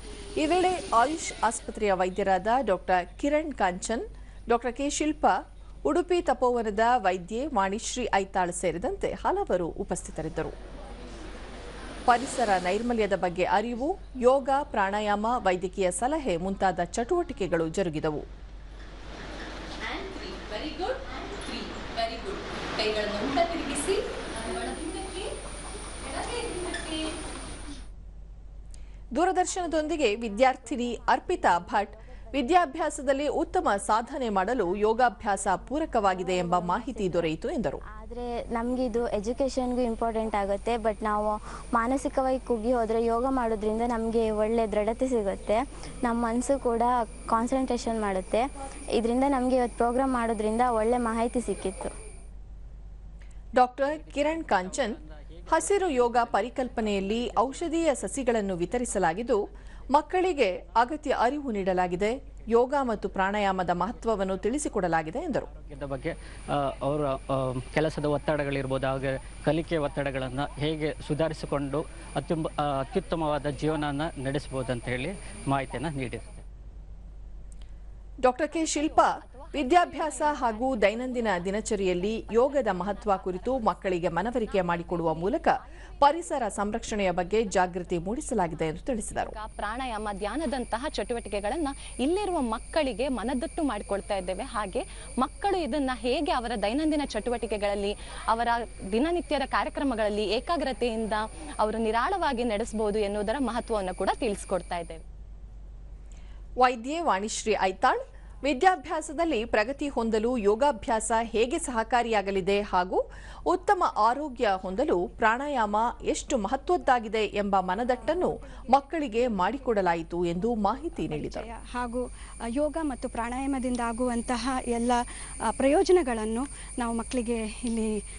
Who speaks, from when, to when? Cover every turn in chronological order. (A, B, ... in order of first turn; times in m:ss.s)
0:00.4-0:05.4 A
0:05.9-0:10.5 A
0:12.1-0:18.2 A
0:19.8-0:25.3 B
0:26.0-0:27.1 B
0:29.2-0:37.8 A
0:36.4-0:37.3 C
0:38.0-0:48.4 C
0:49.0-0:51.9 C
0:53.6-0:55.0 A
0:53.9-0:58.1 D
0:55.5-1:05.5 A
1:05.6-1:16.4 D
1:18.2-1:29.4 A
1:18.5-1:25.5 B
1:29.2-1:45.0 B
1:46.6-2:01.5 A
1:58.0-1:58.3 E
2:01.1-2:02.0 E
2:02.6-2:05.0 E
2:05.6-2:07.9 E